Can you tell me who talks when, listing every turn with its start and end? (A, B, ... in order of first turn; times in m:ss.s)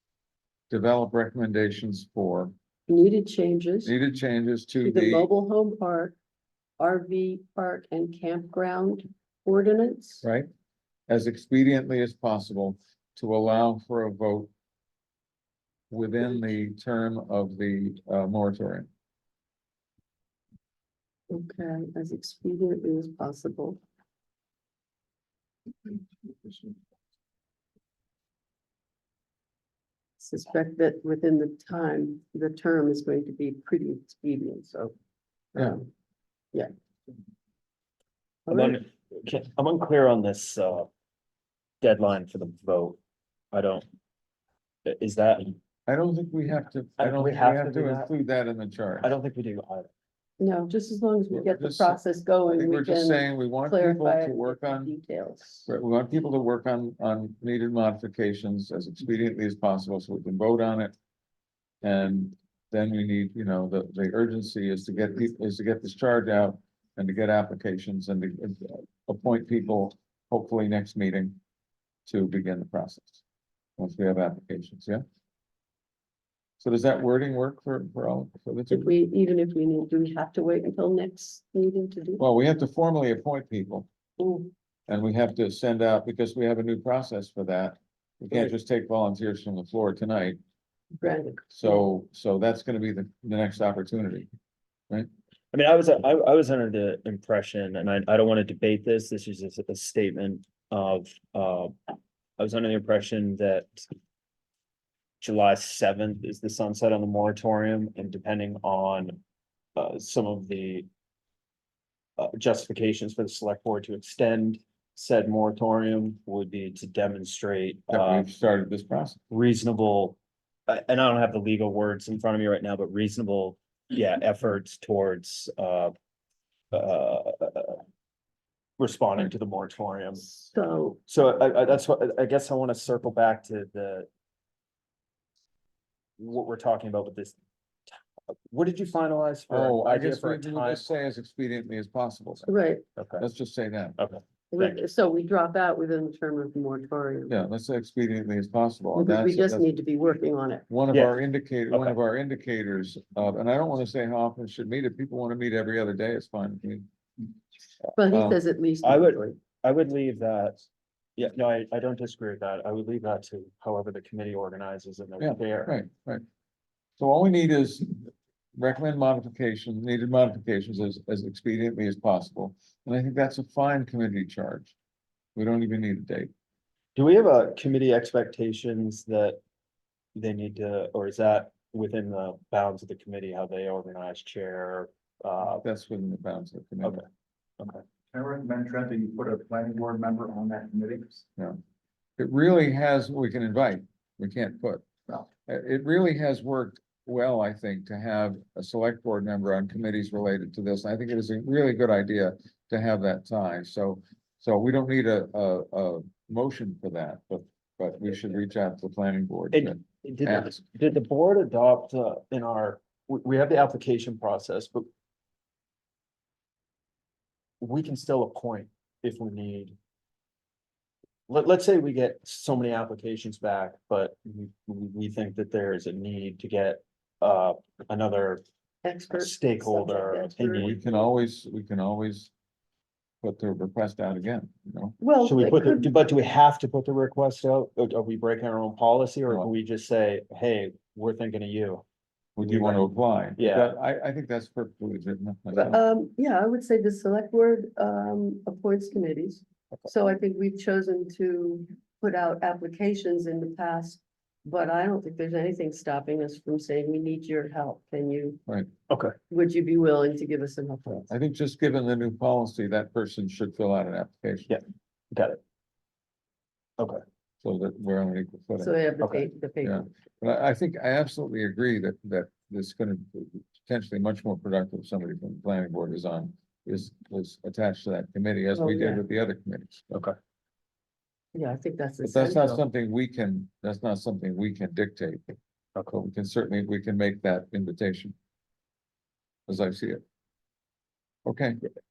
0:00.7-0:02.5 A
0:02.9-0:03.9 B
0:03.8-0:05.3 A
0:04.8-0:06.2 B
0:06.8-0:10.2 B
0:10.2-0:10.5 A
0:11.1-0:14.5 A
0:15.9-0:18.9 A
0:21.3-0:23.8 B
0:30.2-0:34.9 B
0:35.5-0:35.9 B
0:38.5-0:38.8 B
0:38.5-0:40.9 C
0:41.8-0:43.0 C
0:43.5-0:43.9 C
0:44.8-0:45.6 C
0:45.9-0:49.1 A
0:47.0-0:48.1 C
0:49.0-0:49.9 C
0:50.4-0:55.7 B
0:51.3-0:52.0 A
0:52.5-0:55.0 A
0:55.7-1:00.9 A
1:01.8-1:11.4 A
1:12.1-1:13.2 A
1:13.8-1:15.0 A
1:16.6-1:18.9 A
1:18.7-1:22.2 B
1:22.2-1:23.9 A
1:24.2-1:24.5 B
1:24.9-1:30.4 A
1:31.0-1:31.9 B
1:31.5-1:34.3 A
1:35.5-1:41.8 C
1:42.4-1:43.9 C
1:45.2-1:49.2 C
1:49.8-1:50.9 C
1:52.2-1:58.3 C
1:57.9-1:59.2 A
1:59.3-2:00.2 C
2:00.7-2:05.9 C
2:06.7-2:07.8 C
2:08.8-2:10.4 C
2:10.4-2:11.0 B
2:11.1-2:14.1 C
2:16.2-2:17.4 C
2:18.5-2:20.9 C
2:19.5-2:22.5 A
2:22.5-2:22.8 B
2:23.0-2:23.2 C
2:23.2-2:24.0 A
2:24.0-2:24.8 C
2:24.5-2:27.3 B
2:27.3-2:29.7 A
2:28.9-2:30.7 B
2:30.7-2:36.9 A
2:30.9-2:31.2 C
2:31.7-2:32.0 C
2:38.0-2:39.4 B
2:38.0-2:38.4 A
2:38.8-2:40.7 C
2:41.2-2:45.8 C
2:45.2-2:46.2 A
2:47.0-2:54.8 A
2:55.4-2:56.3 A
2:57.0-2:59.4 C
3:00.2-3:05.6 C
3:05.6-3:07.0 A
3:08.2-3:11.1 D
3:12.2-3:30.6 A
3:29.5-3:34.9 C
3:37.6-3:39.8 C
3:41.3-3:48.4 C
3:48.8-3:51.1 B
3:49.1-3:50.8 C
3:50.6-3:52.3 A
3:53.2-3:55.0 A
3:55.0-3:55.9 B
3:55.2-4:01.8 C
4:02.4-4:05.8 A
4:02.4-4:03.7 C
4:05.5-4:18.4 B
4:18.9-4:19.2 C
4:19.3-4:21.1 B
4:21.1-4:24.6 A
4:24.5-4:25.4 C
4:27.4-4:28.8 A
4:28.6-4:29.9 B
4:29.0-4:29.3 C
4:29.6-4:39.9 A
4:38.5-4:39.0 B
4:41.4-4:42.6 B
4:42.0-4:45.4 A
4:45.9-4:48.2 A
4:49.5-4:50.0 A
4:51.2-4:51.6 A